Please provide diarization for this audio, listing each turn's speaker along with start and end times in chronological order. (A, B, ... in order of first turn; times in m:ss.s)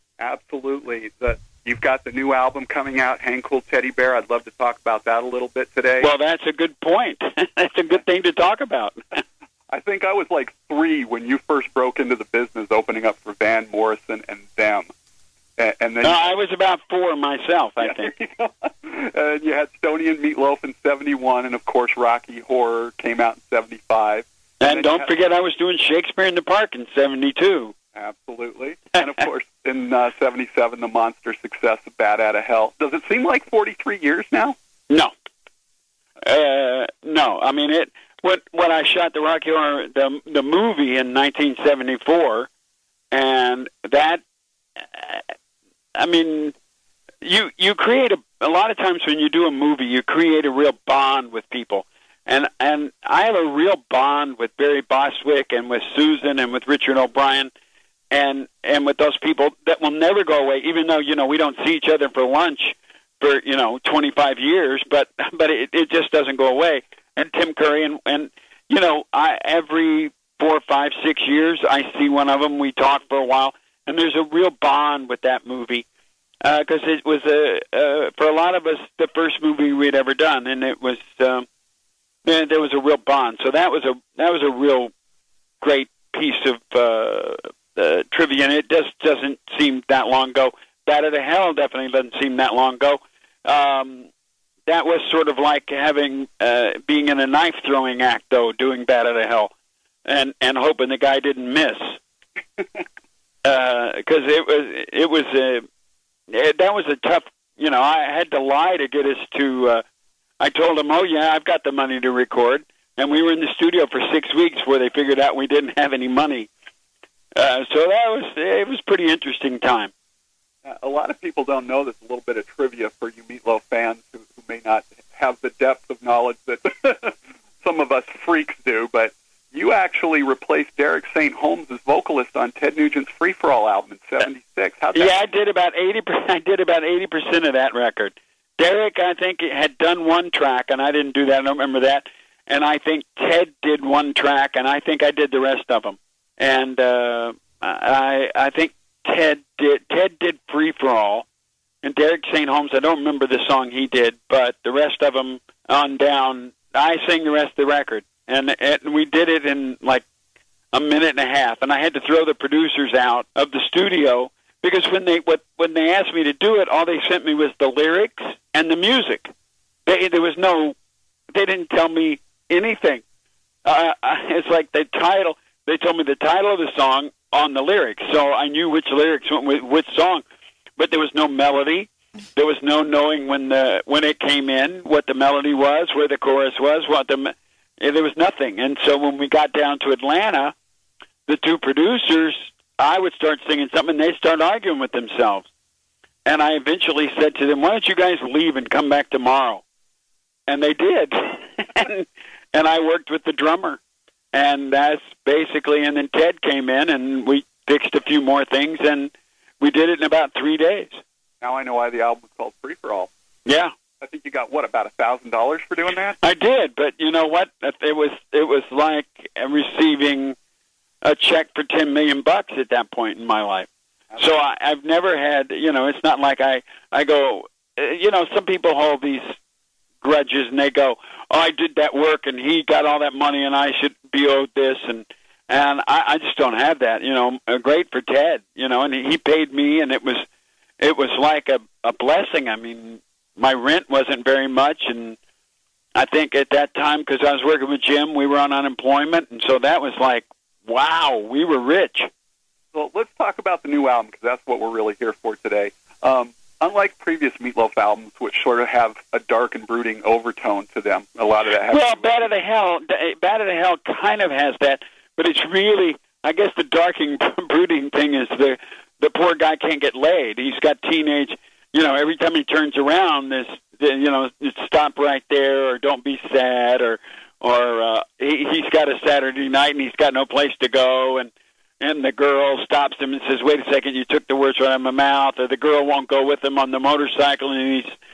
0:00.2-0:06.1 A
0:06.0-0:09.0 B
0:09.7-0:14.9 A
0:15.6-0:16.3 A
0:16.0-0:18.1 B
0:17.8-0:25.1 A
0:24.6-0:27.7 B
0:28.0-0:34.6 A
0:36.2-0:42.5 B
0:43.1-0:44.2 B
0:44.8-0:45.2 B
0:46.0-0:46.5 B
0:47.2-0:57.5 B
0:58.1-1:15.8 B
1:16.4-1:21.5 B
1:22.2-1:24.9 B
1:25.6-1:34.1 B
1:34.7-1:39.5 B
1:40.1-1:42.0 B
1:43.4-1:45.6 B
1:46.3-1:49.8 B
1:50.4-1:56.5 B
1:57.4-1:59.9 B
2:00.6-2:15.2 A
2:14.9-2:31.3 B
2:31.8-2:40.0 B
2:40.7-2:49.3 B
2:49.9-2:50.8 B
2:51.3-2:53.0 B
2:53.6-3:00.2 B
3:00.8-3:10.5 B
3:11.3-3:15.5 B
3:16.2-3:19.6 B
3:20.5-3:23.8 B
3:24.3-3:31.0 B
3:31.4-3:33.1 A
3:33.5-3:33.7 B
3:34.0-3:36.2 A
3:36.2-3:40.4 B
3:41.0-3:49.3 B
3:50.0-4:00.3 B
4:00.8-4:05.2 B
4:06.0-4:12.1 B
4:12.7-4:22.3 A
4:21.7-4:48.0 B